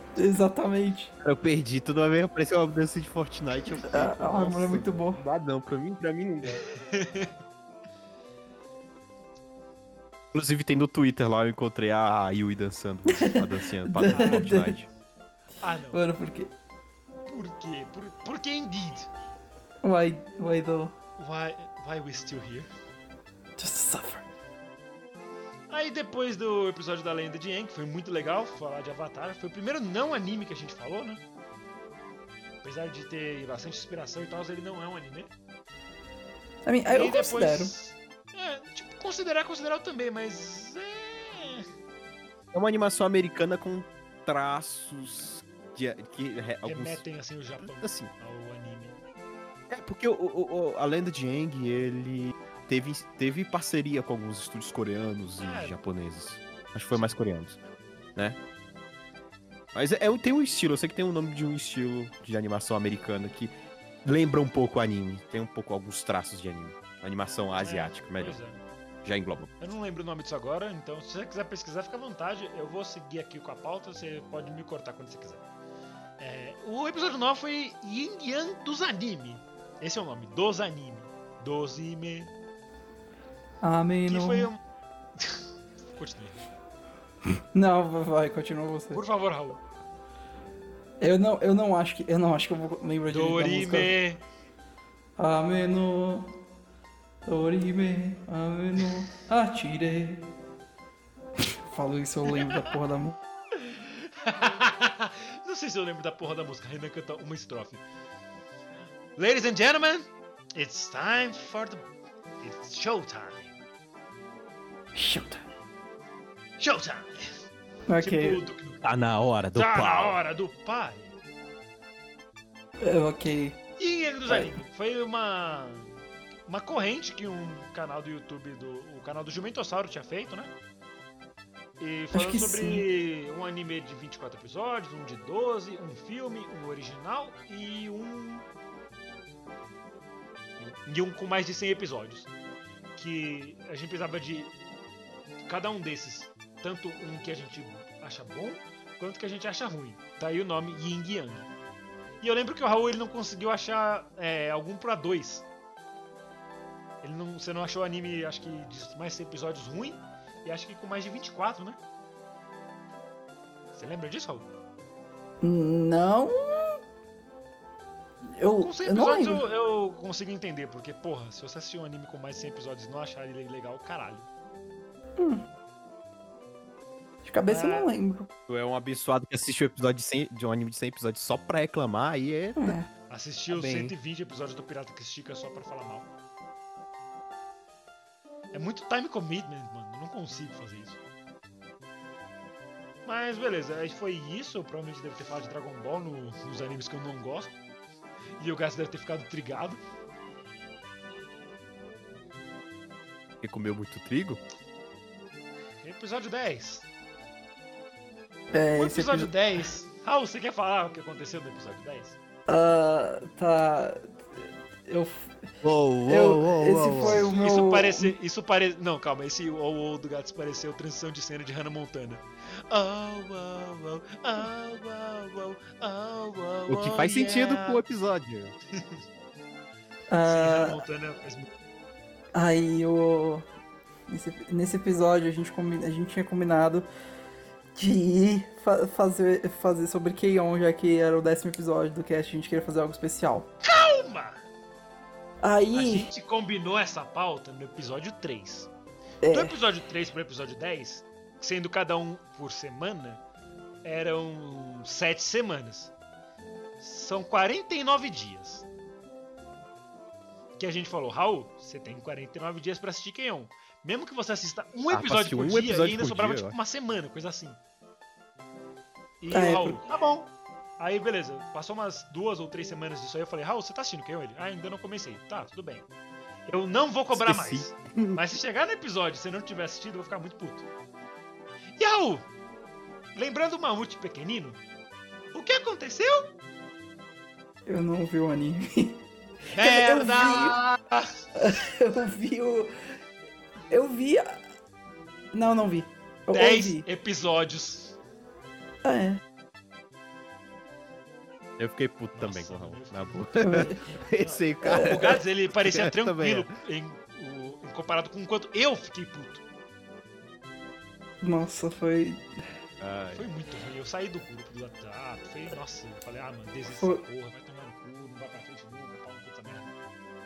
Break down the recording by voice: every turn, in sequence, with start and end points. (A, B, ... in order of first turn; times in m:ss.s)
0:00.2-0:01.1 A
0:01.2-0:06.6 B
0:03.9-0:05.2 A
0:06.7-0:07.3 C
0:10.3-0:14.9 B
0:13.1-0:14.8 A
0:14.1-0:14.5 C
0:15.6-0:16.0 C
0:15.9-0:16.5 A
0:17.3-0:19.1 C
0:19.8-0:21.0 A
0:21.2-0:22.7 C
0:23.6-0:24.2 A
0:25.7-0:31.2 C
0:32.6-0:35.3 C
0:36.6-0:37.7 A
0:36.9-0:41.7 C
0:42.5-0:47.0 B
0:46.6-0:49.0 C
0:47.6-0:48.1 B
0:49.7-0:57.6 B
0:55.4-0:55.8 C
0:56.9-0:57.2 C
0:59.7-1:03.5 B
1:04.0-1:08.4 B
1:07.6-1:08.6 C
1:09.0-1:09.6 B
1:09.6-1:15.4 C
1:16.2-1:22.3 C
1:23.6-1:24.5 A
1:24.1-1:24.6 C
1:25.2-1:26.4 C
1:27.5-1:29.0 A
1:28.9-1:29.6 C
1:31.0-1:34.0 A
1:33.1-1:34.2 C
1:35.2-1:36.3 A
1:37.2-1:40.3 A
1:41.7-1:43.2 A
1:42.3-1:42.7 C
1:43.5-1:47.8 C
1:49.2-1:51.9 C
1:52.4-1:53.6 C
1:55.0-1:55.4 A
1:56.6-1:57.4 C
1:57.9-1:58.4 A
1:58.0-1:58.8 C
1:58.8-2:00.2 B
1:59.5-2:01.1 C
2:02.8-2:03.6 A
2:03.8-2:05.9 C
2:06.5-2:10.5 C
2:11.8-2:18.5 C
2:12.1-2:12.8 A
2:20.6-2:22.3 C
2:23.0-2:24.5 C
2:25.5-2:31.5 C
2:32.2-2:35.5 C
2:37.0-2:41.8 C
2:43.7-2:44.5 C
2:45.4-2:46.8 A
2:48.4-2:49.4 A
2:48.6-2:54.3 C
2:55.2-2:55.4 A
2:57.2-2:58.3 A
2:57.5-2:57.9 C
2:58.5-3:02.8 B
3:02.6-3:02.9 A
3:03.1-3:06.1 C
3:03.5-3:03.9 B
3:08.5-3:11.0 C
3:13.0-3:17.6 C
3:18.4-3:19.8 C
3:23.4-3:24.4 B
3:25.8-3:26.9 C
3:28.5-3:29.4 A
3:28.7-3:32.2 C
3:32.5-3:35.5 A
3:35.6-3:37.3 B
3:36.1-3:38.2 A
3:37.0-3:47.8 C
3:46.7-3:48.5 B
3:48.7-3:49.0 C
3:50.1-3:50.8 A
3:50.2-3:51.5 C
3:52.3-3:53.5 A
3:54.1-3:56.9 A
3:57.8-4:03.5 A
4:03.6-4:04.4 C
4:05.4-4:06.1 A
4:05.7-4:08.7 C
4:09.2-4:09.6 A
4:09.3-4:13.2 C
4:13.8-4:15.9 C
4:16.8-4:18.7 C
4:20.6-4:27.6 C
4:24.9-4:26.6 B
4:29.2-4:35.9 C
4:29.3-4:29.8 A
4:36.5-4:40.7 C
4:37.1-4:38.2 B
4:41.8-4:42.3 C
4:43.2-4:44.6 C
4:45.3-4:46.3 C
4:47.7-4:49.0 A
4:49.5-4:51.1 C
4:49.6-4:50.6 A
4:51.4-4:52.7 A
4:53.7-4:54.4 A
4:55.3-4:56.8 A
4:56.3-4:58.0 C
4:58.8-4:59.2 A
5:01.6-5:06.5 B
5:02.2-5:09.4 C
5:03.5-5:03.8 A
5:04.6-5:05.0 A
5:11.2-5:12.3 A
5:12.8-5:13.3 B
5:13.1-5:19.7 C